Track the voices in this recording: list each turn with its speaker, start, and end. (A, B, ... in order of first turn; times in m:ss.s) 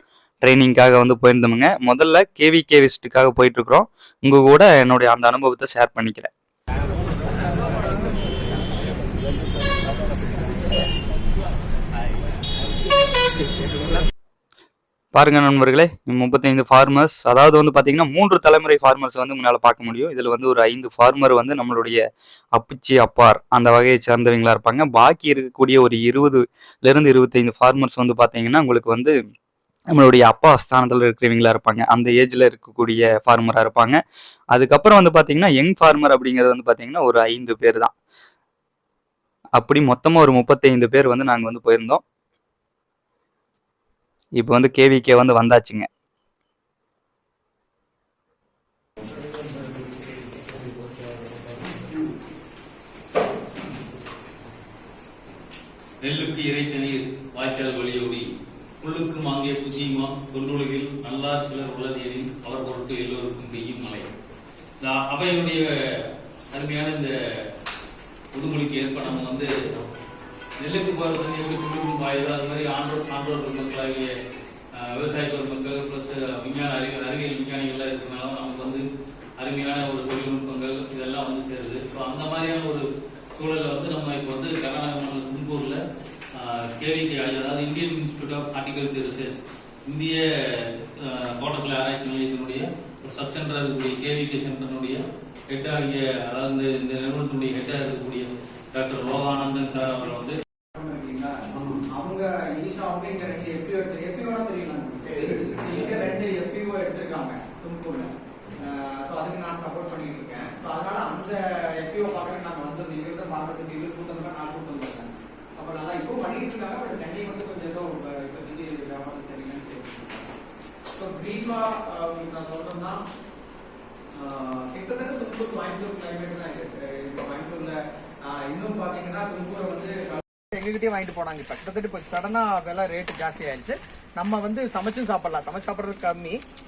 0:00.4-0:06.3 A
0:07.4-0:07.9 B
0:15.1-0:22.0 A
0:22.5-0:29.2 A
0:29.9-0:34.0 A
0:34.5-0:37.9 A
0:39.6-0:42.0 A
0:44.4-0:45.9 A
0:56.0-0:58.3 C
0:58.8-1:04.1 C
1:04.8-1:07.5 C
1:08.3-1:09.9 C
1:10.6-1:14.1 C
1:14.8-1:18.8 C
1:19.4-1:25.8 C
1:26.3-1:40.4 C
1:40.7-2:00.3 B
1:45.2-1:45.9 C
2:01.0-2:03.0 B
2:04.1-2:16.4 B